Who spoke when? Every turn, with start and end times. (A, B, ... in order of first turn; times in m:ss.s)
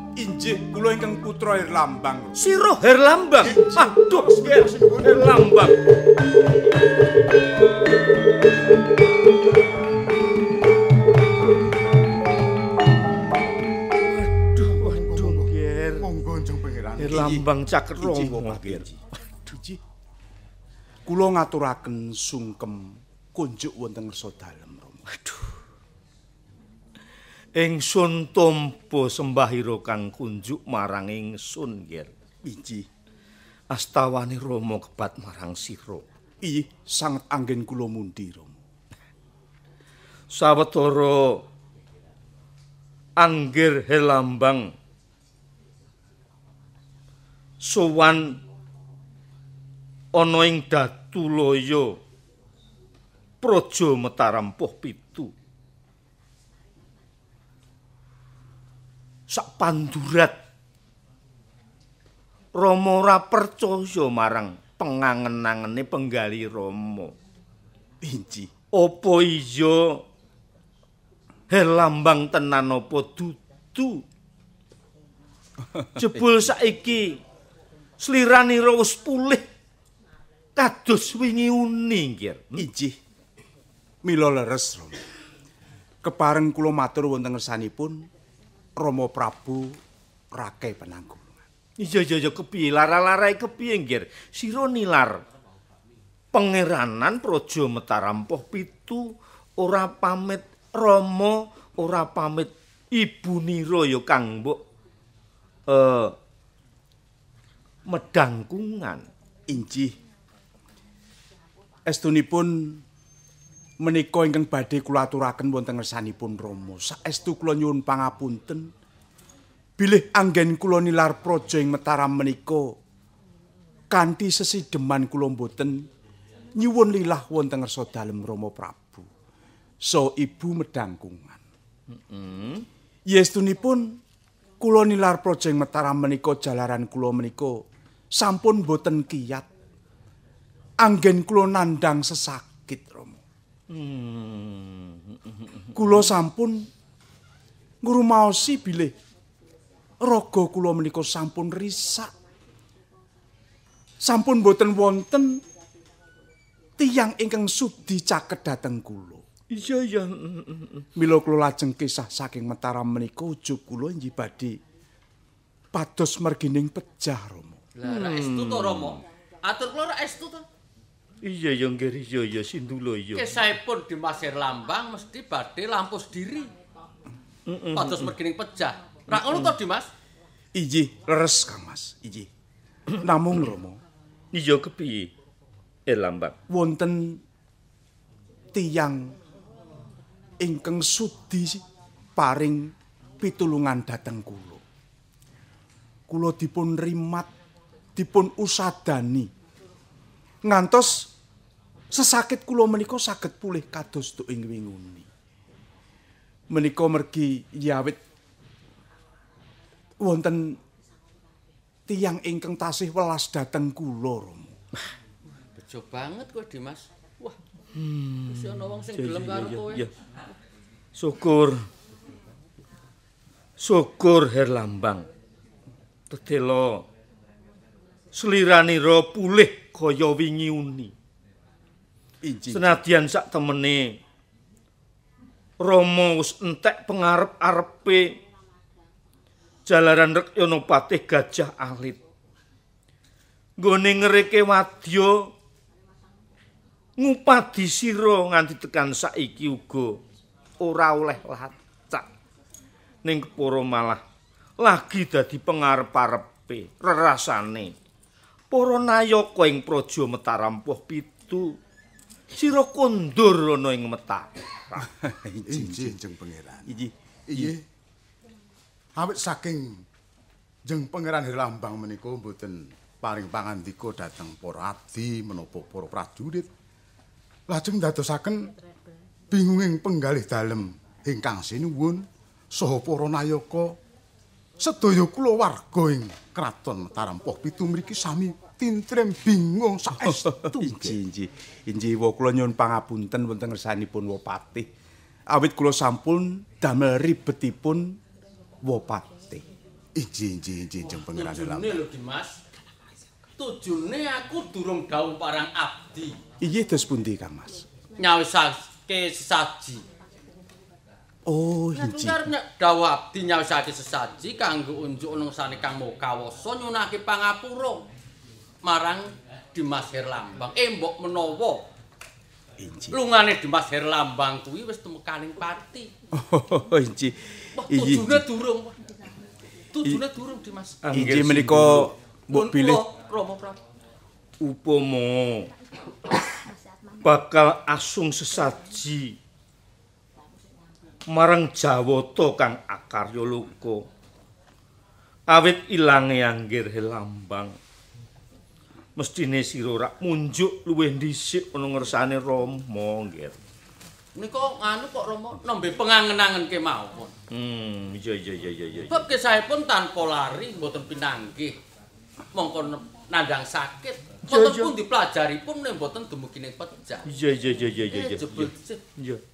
0:00.1-0:02.4 A
0:02.4-0:05.8 B
0:03.4-0:05.4 C
0:14.1-0:16.1 B
0:14.9-0:17.2 C
0:17.0-0:19.0 B
0:17.1-0:17.4 A
0:18.0-0:18.9 A
0:19.4-0:19.8 A
0:21.0-0:25.0 A
0:25.1-0:25.5 B
0:27.5-0:32.1 B
0:32.4-0:32.9 A
0:33.7-0:36.0 B
0:36.4-0:38.6 A
0:40.3-0:41.4 B
0:43.2-0:44.7 B
0:47.6-0:48.4 B
0:50.1-0:52.0 B
0:53.4-0:55.3 B
0:59.3-1:00.3 B
1:02.6-1:07.1 B
1:08.0-1:08.5 A
1:08.7-1:10.0 B
1:11.5-1:14.0 B
1:16.0-1:17.2 B
1:18.0-1:19.4 B
1:20.6-1:22.6 B
1:22.6-1:23.0 A
1:24.0-1:25.0 A
1:26.0-1:28.1 A
1:28.8-1:29.8 A
1:30.3-1:31.4 A
1:31.8-1:35.2 B
1:36.3-1:44.6 B
1:45.7-1:46.1 B
1:47.9-1:49.0 B
1:49.5-1:49.9 A
1:51.8-1:52.8 A
1:53.8-1:58.7 A
1:59.8-2:02.8 A
2:03.9-2:05.9 A
2:06.6-2:09.1 A
2:09.8-2:11.4 A
2:11.9-2:12.6 B
2:13.1-2:14.0 A
2:14.6-2:17.6 A
2:18.2-2:19.5 A
2:20.8-2:23.2 A
2:23.7-2:25.9 B
2:25.7-2:26.7 A
2:27.8-2:29.0 A
2:30.0-2:32.1 A
2:34.0-2:35.4 A
2:36.8-2:39.2 A
2:39.5-2:40.8 B
2:41.0-2:44.6 A
2:45.7-2:47.6 A
2:47.8-2:50.4 D
2:47.8-2:49.0 B
2:51.2-2:53.3 B
2:53.1-2:56.5 D
2:57.5-2:58.1 B
2:57.7-2:59.9 D
3:00.5-3:02.3 A
3:03.0-3:03.8 A
3:04.3-3:05.1 B
3:05.9-3:06.4 B
3:06.5-3:07.2 A
3:08.5-3:09.2 A
3:10.4-3:11.6 A
3:12.2-3:14.6 A
3:16.1-3:17.3 A
3:18.0-3:19.3 A
3:20.4-3:21.1 A
3:21.9-3:25.1 A
3:26.5-3:28.0 A
3:30.0-3:30.6 A
3:31.9-3:34.6 A
3:35.5-3:37.4 D
3:37.8-3:39.9 B
3:38.3-3:39.9 D
3:41.0-3:41.7 B
3:43.6-3:45.1 B
3:46.1-3:46.8 B
3:48.1-3:50.9 B
3:52.2-3:52.8 A
3:52.5-3:54.0 B
3:55.6-3:58.1 B
3:59.6-4:02.0 B
4:03.6-4:05.3 B
4:07.0-4:10.0 B
4:10.6-4:12.1 B
4:13.0-4:14.0 B
4:14.6-4:17.7 B
4:18.5-4:21.6 B
4:22.3-4:24.9 B
4:24.8-4:26.0 A
4:25.5-4:26.7 C
4:26.7-4:27.5 A
4:27.3-4:27.6 C
4:29.0-4:29.8 C
4:30.6-4:36.5 C
4:37.5-4:38.5 C
4:39.3-4:43.8 C
4:44.6-4:50.9 C
4:50.0-4:54.7 A
4:55.3-4:58.0 A
4:58.6-4:59.4 A
5:00.0-5:01.8 C
5:00.8-5:02.4 D
5:03.4-5:06.2 D
5:06.4-5:07.7 A
5:08.0-5:09.8 D
5:11.2-5:12.3 A
5:11.7-5:17.8 D
5:18.6-5:21.6 D
5:22.6-5:23.0 A
5:22.9-5:25.9 D
5:26.1-5:28.2 A
5:27.6-5:28.8 D
5:29.7-5:31.0 D
5:30.8-5:31.9 B
5:30.9-5:32.8 A
5:32.3-5:33.6 D
5:34.4-5:35.5 B
5:37.0-5:39.2 B
5:41.1-5:43.8 B
5:45.3-5:47.6 B
5:49.0-5:53.4 B
5:54.1-5:57.1 D
5:57.3-5:59.0 B
5:58.9-6:01.6 D
6:02.3-6:07.1 D
6:04.2-6:04.7 B
6:07.1-6:09.2 B
6:07.9-6:08.8 D